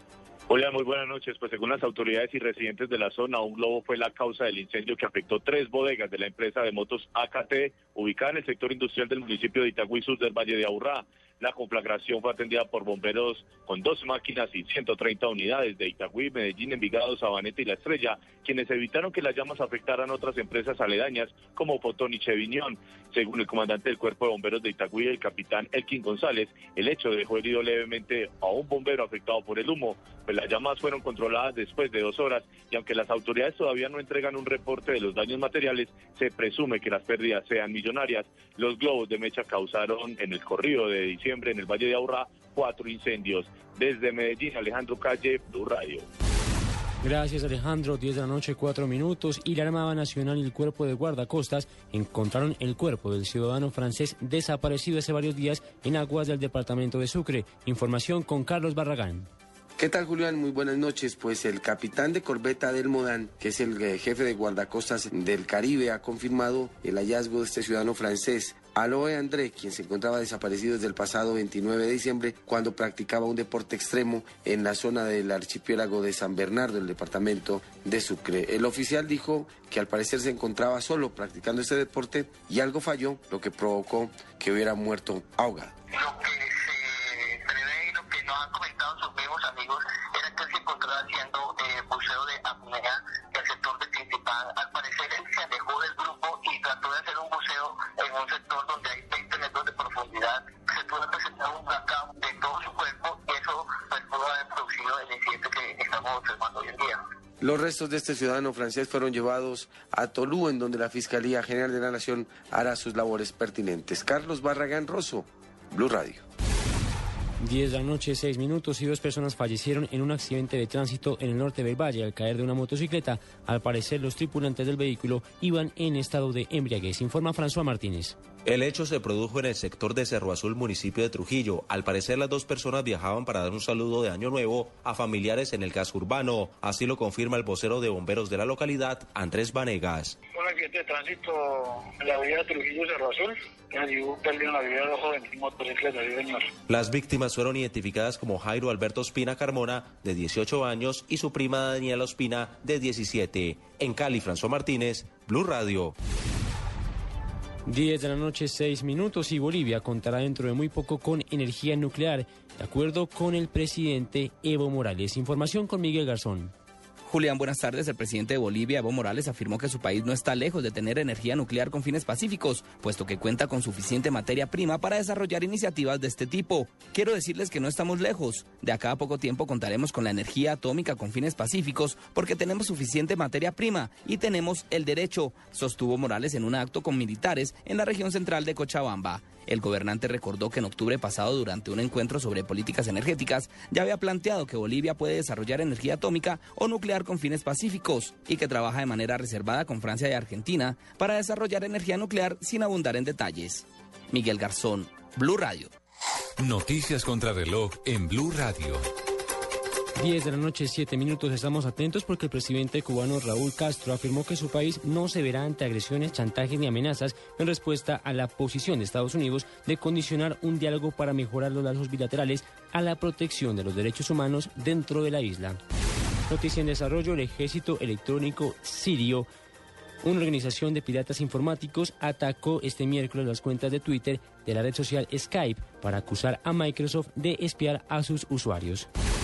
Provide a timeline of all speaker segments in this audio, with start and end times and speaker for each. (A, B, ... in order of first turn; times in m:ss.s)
0:00.5-0:46.0 A
0:47.0-0:59.3 B
0:59.8-1:25.7 C
1:25.9-1:47.0 D
1:47.4-1:56.2 C
1:57.4-2:08.2 B
2:08.4-2:20.2 E
2:20.3-2:26.4 F
2:26.7-2:35.9 E
2:37.6-2:46.5 B
2:47.1-3:25.7 G
3:26.4-3:28.9 H
3:30.0-3:45.6 B
3:46.3-3:49.3 B
3:50.0-3:58.9 B